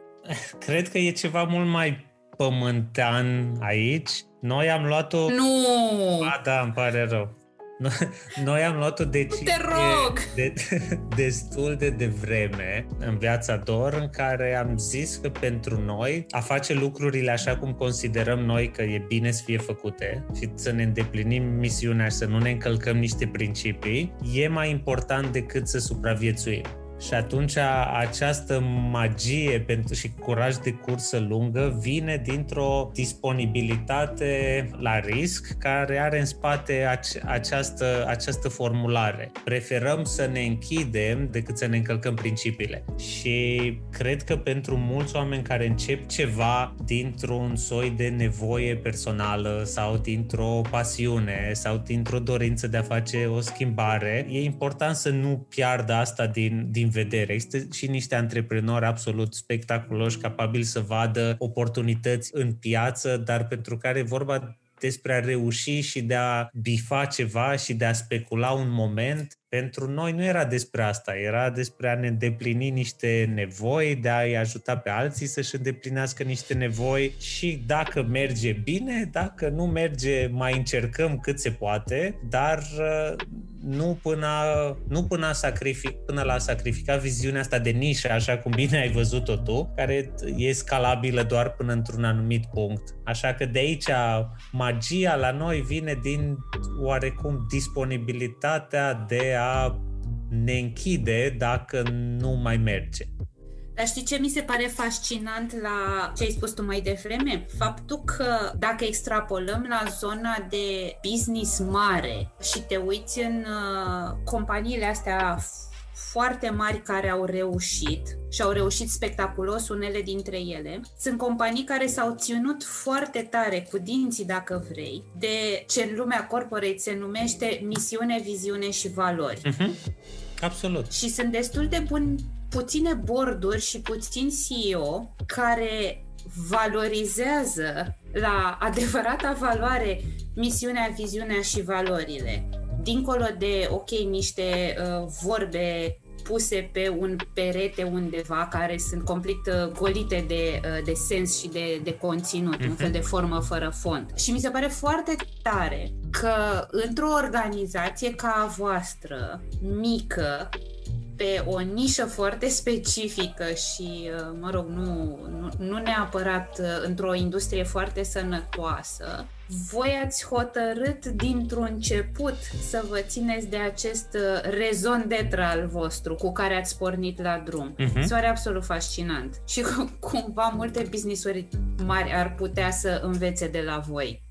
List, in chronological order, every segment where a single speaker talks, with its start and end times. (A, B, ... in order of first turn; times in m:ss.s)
0:00.2-0:05.4 A
0:05.3-0:06.3 B
0:06.2-1:43.1 A
0:09.3-0:10.3 B
1:43.8-2:09.4 B
2:09.4-2:09.8 A
2:10.4-2:10.9 A
2:10.9-2:40.6 B
2:32.6-2:32.9 A
2:41.2-3:04.2 B
2:57.8-2:58.1 A